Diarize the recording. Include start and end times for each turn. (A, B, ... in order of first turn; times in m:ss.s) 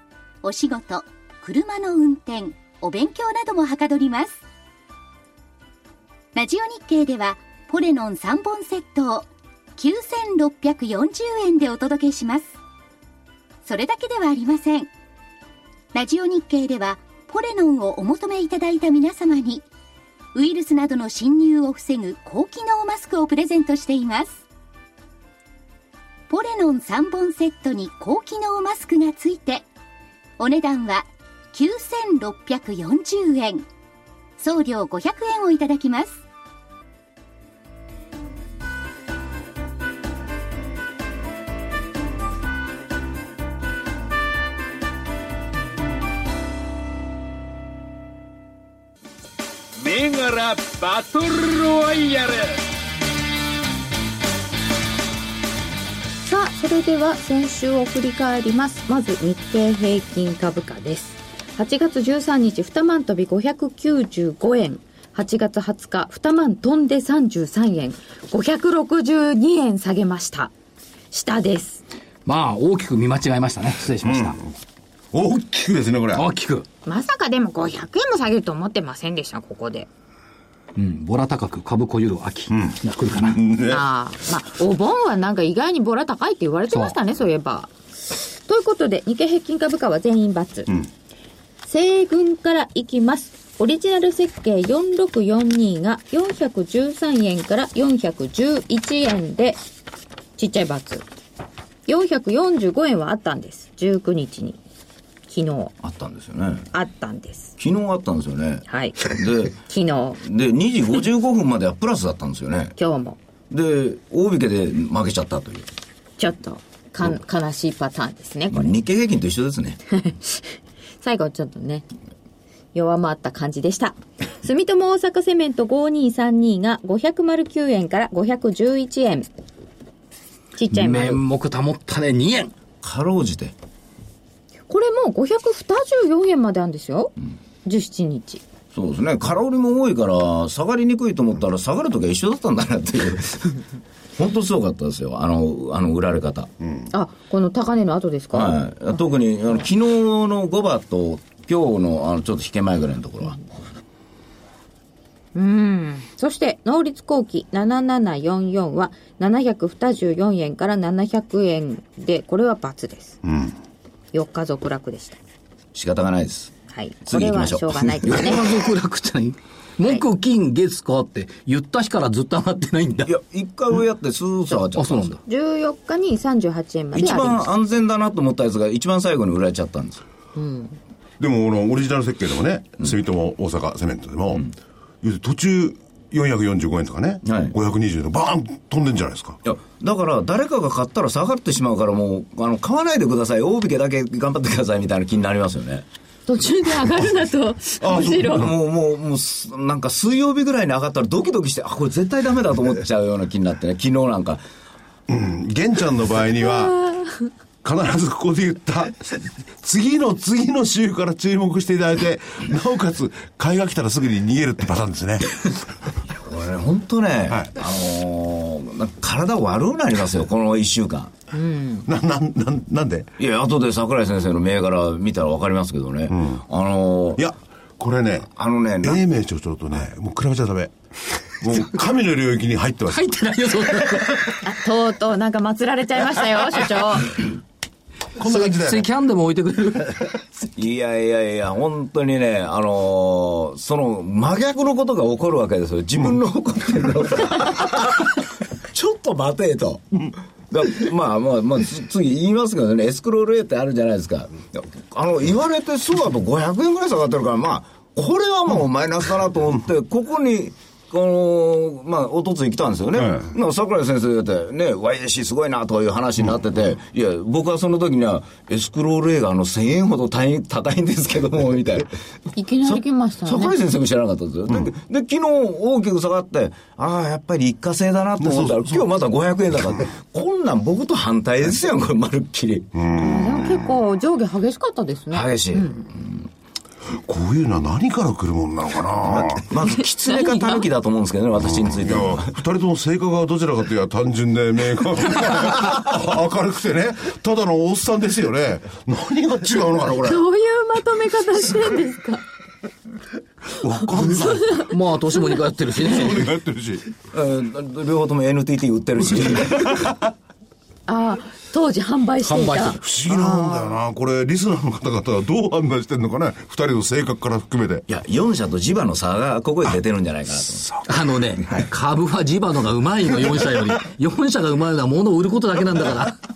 0:00.4-0:04.4 A
0:06.3-0:12.5 A
0:13.6-0:14.9 A
0:15.9-0:19.6 A
0:20.3-0:24.4 A
0:26.3-0:29.6 A
0:30.4-0:33.7 A
0:34.4-0:36.2 A
0:49.8-0:52.6 B
0:56.2-1:10.5 C
1:11.1-1:11.8 C
1:12.2-1:14.4 D
1:14.0-1:14.4 E
1:15.1-1:16.3 E
1:16.1-1:16.6 D
1:16.8-1:19.9 C
1:20.8-1:23.4 D
1:22.5-1:23.8 E
1:23.6-1:30.7 C
1:26.7-1:27.0 D
1:31.6-1:39.6 C
1:40.4-1:41.0 C
1:41.9-1:44.6 C
1:45.3-1:45.7 C
1:45.8-1:46.7 F
1:46.7-1:47.5 C
1:47.6-1:49.6 F
1:48.7-1:50.2 C
1:50.2-1:52.7 F
1:52.8-1:53.2 C
1:53.5-1:55.7 F
1:56.2-1:58.8 C
1:58.5-1:59.8 F
1:59.9-2:01.8 C
2:02.7-2:09.3 C
2:10.6-2:11.2 C
2:10.7-2:12.5 D
2:12.8-2:13.5 F
2:14.7-2:17.1 C
2:17.6-2:18.4 C
2:18.7-2:23.6 F
2:24.2-2:26.5 F
2:26.6-2:26.9 E
2:26.9-2:29.0 C
2:28.3-2:33.4 F
2:35.3-2:43.2 C
2:43.3-2:43.5 E
2:44.1-2:45.2 C
2:45.7-2:46.5 F
2:46.7-2:48.5 C
2:47.1-2:48.3 F
2:48.0-2:53.1 D
2:53.0-2:55.2 F
2:54.8-2:55.2 D
2:55.2-2:57.5 C
2:56.9-3:00.0 F
3:00.3-3:00.8 C
3:01.2-3:04.5 E
3:05.0-3:09.4 E
3:07.2-3:07.6 F
3:09.4-3:15.8 F
3:16.3-3:18.5 C
3:17.8-3:18.5 E
3:17.9-3:24.4 F
3:25.1-3:26.8 E
3:27.6-3:35.7 E
3:36.1-3:41.1 F
3:41.3-3:41.8 C
3:41.8-3:43.1 E
3:43.2-3:47.2 F
3:46.1-3:46.4 E
3:47.2-3:48.3 E
3:48.4-3:49.0 F
3:48.8-3:54.3 E
3:52.9-3:54.3 D
3:54.4-3:57.3 C
3:58.2-3:58.9 E
3:58.2-4:00.0 D
4:00.6-4:08.2 F
4:08.7-4:31.9 F
4:22.9-4:23.3 E
4:32.4-4:33.6 C
4:32.6-4:42.7 F
4:38.2-4:38.8 E
4:42.7-4:43.7 E
4:42.9-4:45.8 C
4:45.1-4:46.2 F
4:47.0-4:49.5 E
4:49.0-4:52.4 F
4:49.6-4:50.6 C
4:51.4-5:00.2 E
5:00.0-5:02.2 C
5:03.6-5:04.7 E
5:03.9-5:04.6 C
5:04.7-5:06.3 D
5:05.8-5:06.8 E
5:07.1-5:09.9 F
5:09.3-5:10.1 E
5:10.9-5:13.8 C
5:12.2-5:12.8 D
5:12.8-5:17.8 E
5:17.9-5:20.7 F
5:20.9-5:26.2 D